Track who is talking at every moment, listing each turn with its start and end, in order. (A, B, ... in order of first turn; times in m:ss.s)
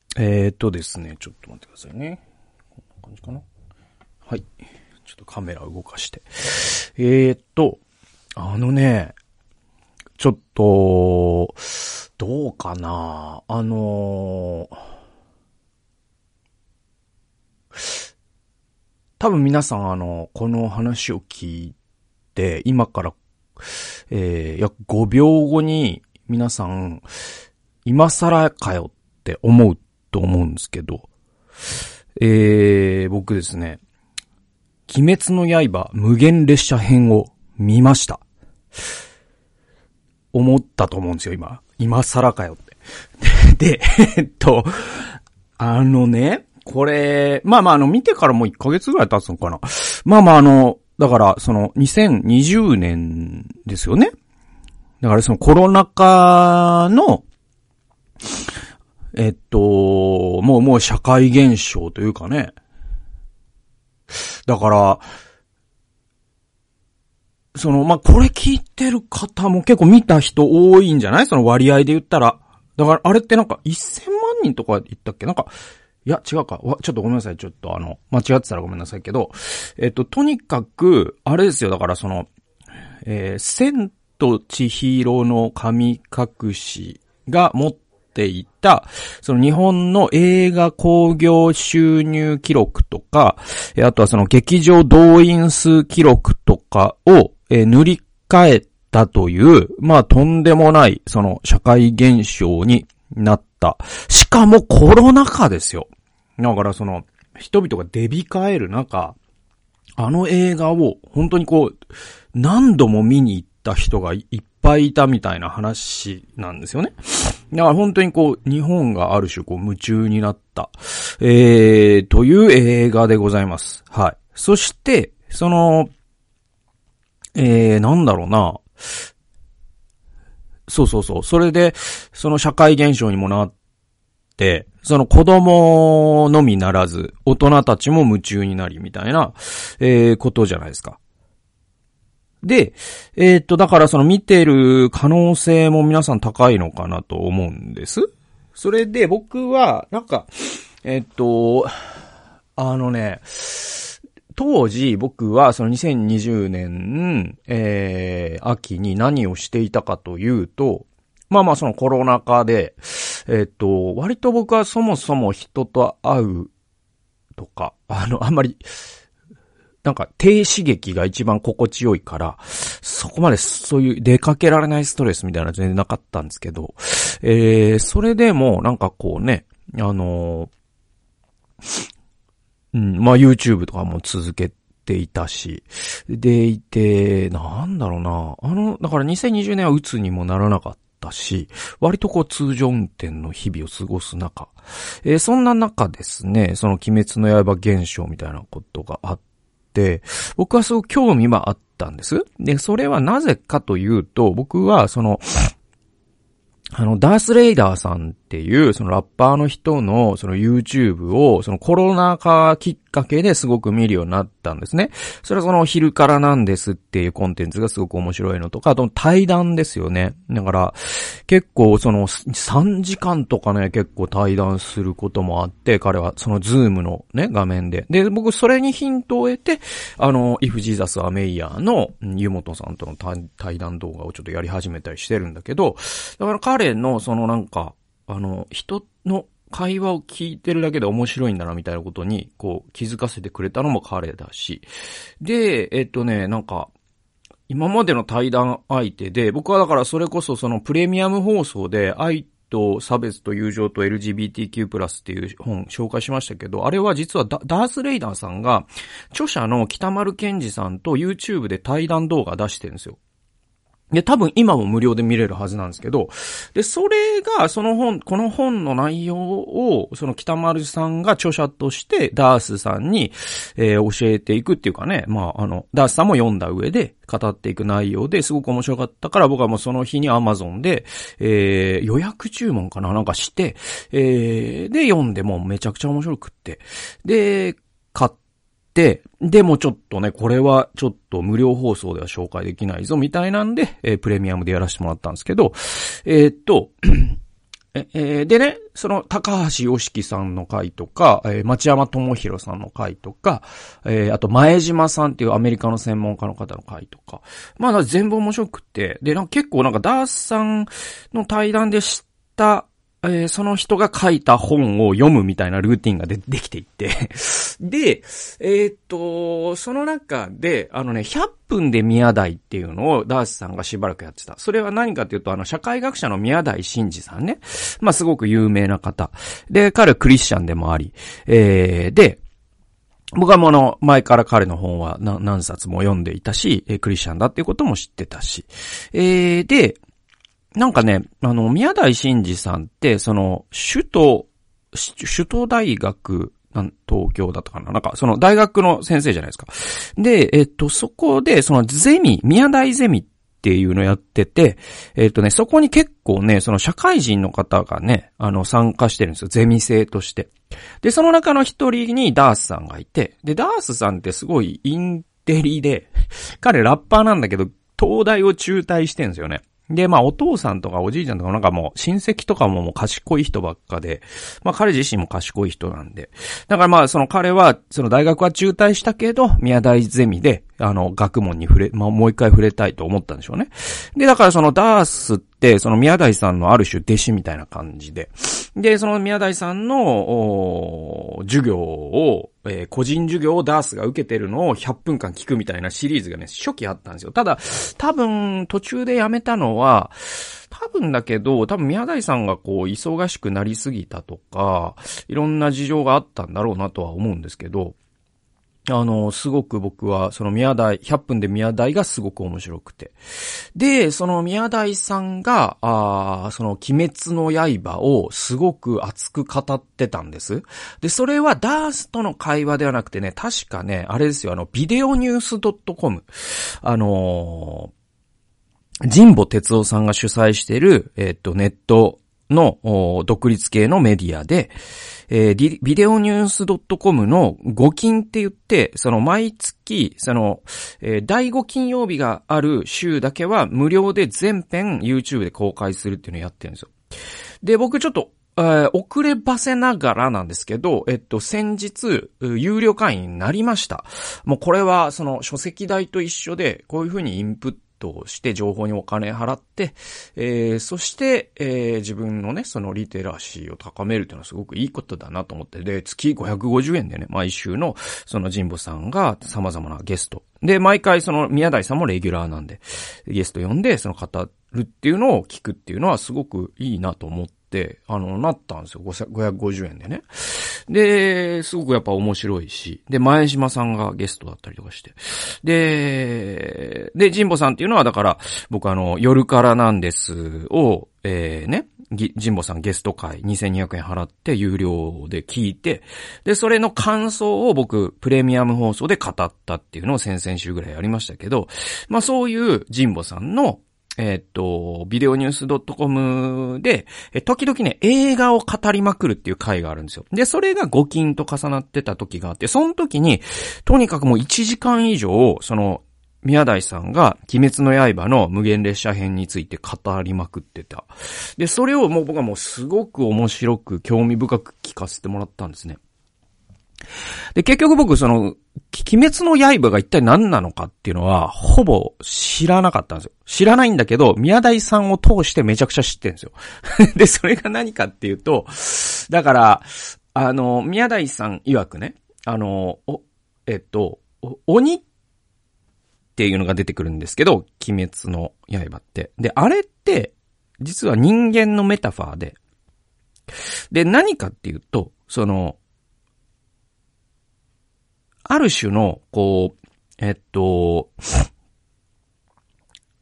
0:00.2-0:02.2 A
0:03.0-0:03.4 A
0:05.0-0:07.8 A
0:08.4-0:09.1 A
0:10.2-0:14.8 A
0:17.7-0:18.0 A
0:19.2-0:21.7 A
0:22.3-0:27.0 A
0:27.8-0:31.1 A
0:32.2-0:33.8 A
0:34.9-0:38.2 A
0:40.3-0:54.1 A
0:55.0-0:57.2 A
0:59.1-1:02.5 A
1:04.5-1:05.0 A
1:07.5-1:15.5 A
1:16.0-1:22.3 A
1:23.0-1:45.9 A
1:46.4-1:49.2 A
1:50.0-1:51.7 A
1:52.3-2:05.9 A
2:07.4-2:08.6 A
2:10.7-2:13.5 A
2:14.4-2:21.0 A
2:22.4-2:31.7 A
2:32.6-2:46.5 A
2:47.4-2:48.6 A
2:49.8-3:00.5 A
3:02.7-3:19.2 A
3:19.7-3:25.5 A
3:26.7-4:04.6 A
4:05.2-4:06.7 A
4:07.5-4:23.0 A
4:23.9-4:48.1 A
4:48.7-4:57.2 A
4:57.7-5:32.2 A
5:33.2-5:39.8 A
5:40.6-6:47.8 A
6:48.7-6:53.0 A
6:53.5-7:07.7 A
7:08.8-7:14.5 A
7:15.1-7:26.7 A
7:27.4-8:45.8 A
8:47.3-9:04.8 A
9:06.2-9:12.4 A
9:13.7-9:15.6 A
9:18.3-9:21.3 A